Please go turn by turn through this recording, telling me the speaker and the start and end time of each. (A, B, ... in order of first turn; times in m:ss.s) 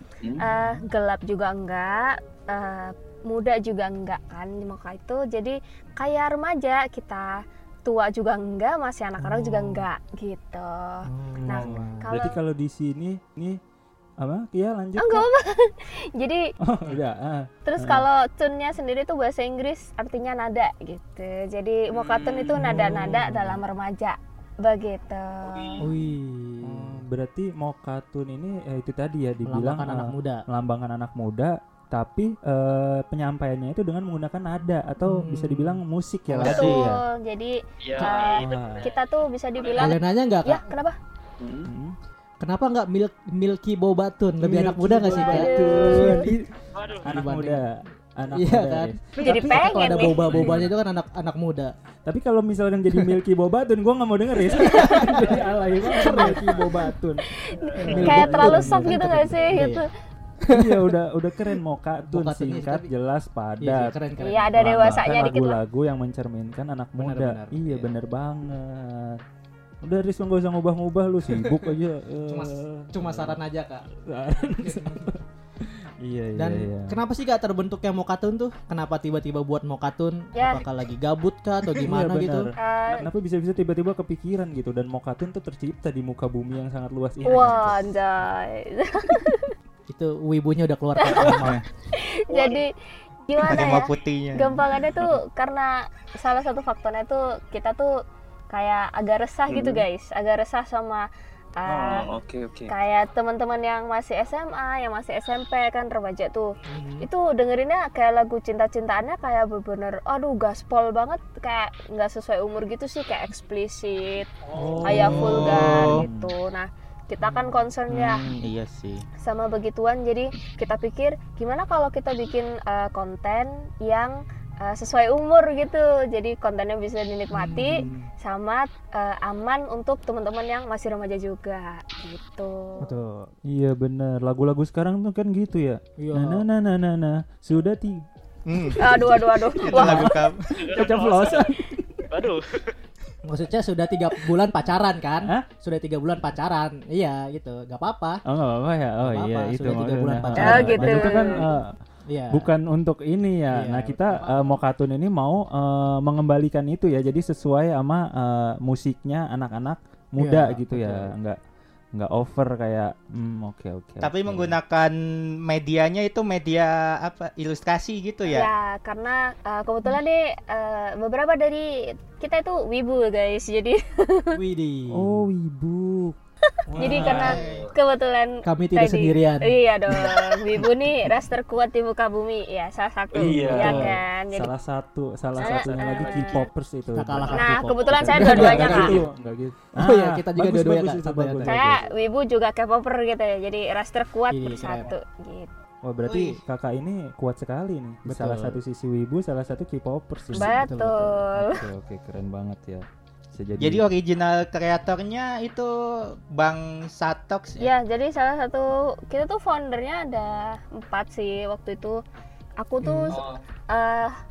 0:00.4-0:12.4 A
0:09.2-0:09.9 B
0:11.1-0:12.1 B
0:11.4-0:13.6 C
0:14.2-0:15.3 C
0:15.0-0:16.5 A
0:16.6-0:18.0 C
0:17.6-0:25.9 A
0:21.9-0:22.6 D
0:22.5-0:23.5 B
0:22.6-0:23.4 C
0:25.5-0:25.9 E
0:25.8-0:27.0 B
0:26.6-0:37.0 C
0:29.4-0:30.4 B
0:35.0-0:36.9 B
0:36.4-0:36.7 F
0:36.4-0:41.0 A
0:37.8-0:38.9 D
0:38.4-0:38.9 C
0:39.6-0:39.8 D
0:39.8-0:40.6 B
0:41.4-0:41.7 E
0:41.6-0:42.0 C
0:42.4-0:46.5 B
0:44.4-0:46.5 C
0:45.1-0:46.2 A
0:46.7-0:47.1 D
0:47.0-0:50.7 C
0:47.0-0:51.7 B
0:49.2-0:50.3 A
0:52.1-0:57.2 C
0:54.5-0:56.8 B
0:56.0-0:56.3 A
0:57.3-0:59.9 A
0:57.8-0:59.6 C
0:57.8-0:59.9 B
1:00.4-1:00.9 B
1:00.5-1:04.0 C
1:02.0-1:02.9 B
1:03.6-1:04.9 B
1:04.2-1:05.6 A
1:04.6-1:09.2 C
1:07.0-1:07.9 B
1:09.8-1:13.4 C
1:11.3-1:11.7 B
1:12.3-1:13.8 B
1:14.0-1:17.0 C
1:14.5-1:15.1 B
1:16.4-1:22.5 B
1:20.3-1:20.6 A
1:21.8-1:27.8 C
1:22.6-1:23.0 A
1:27.2-1:29.5 A
1:29.9-1:31.6 B
1:31.0-1:31.4 A
1:31.2-1:31.5 C
1:31.3-1:31.6 F
1:31.9-1:32.7 A
1:33.3-1:37.9 A
1:33.4-1:34.6 F
1:38.5-1:41.1 A
1:39.5-1:39.8 E
1:41.6-1:42.1 A
1:41.6-1:42.7 E
1:42.7-1:58.2 A
1:46.7-1:47.1 B
1:54.6-1:54.9 E
1:54.6-1:56.3 C
1:54.9-1:56.0 F
1:57.2-1:57.5 B
1:57.9-1:59.0 F
1:59.2-2:12.9 A
2:07.3-2:08.1 B
2:12.8-2:13.3 B
2:13.5-2:22.0 C
2:16.0-2:16.5 B
2:18.5-2:20.5 F
2:18.8-2:20.1 A
2:20.6-2:21.5 D
2:22.1-2:22.7 D
2:23.2-2:28.2 B
2:28.3-2:31.7 C
2:29.0-2:31.5 B
2:30.3-2:31.4 A
2:32.1-2:32.5 B
2:32.3-2:41.4 C
2:33.5-2:34.6 B
2:40.2-2:41.1 B
2:41.9-2:44.6 C
2:44.0-2:48.5 F
2:48.3-2:54.4 A
2:54.3-2:55.3 B
2:54.9-2:56.2 C
2:56.5-3:04.5 A
2:56.7-2:57.4 C
2:56.9-2:57.7 F
2:57.2-2:57.7 D
2:58.4-2:59.6 B
3:03.1-3:04.0 E
3:03.2-3:11.9 C
3:05.4-3:06.4 A
3:05.4-3:06.4 E
3:06.9-3:09.1 B
3:07.3-3:09.0 A
3:09.8-3:11.7 B
3:11.4-3:15.5 A
3:14.3-3:14.9 B
3:15.8-3:20.8 C
3:16.0-3:16.4 F
3:18.0-3:18.6 B
3:20.3-3:21.6 A
3:20.4-3:21.2 B
3:21.3-3:23.9 C
3:23.6-3:27.7 F
3:27.6-3:32.0 A
3:32.6-3:34.1 A
3:32.8-3:33.2 B
3:33.1-3:33.4 E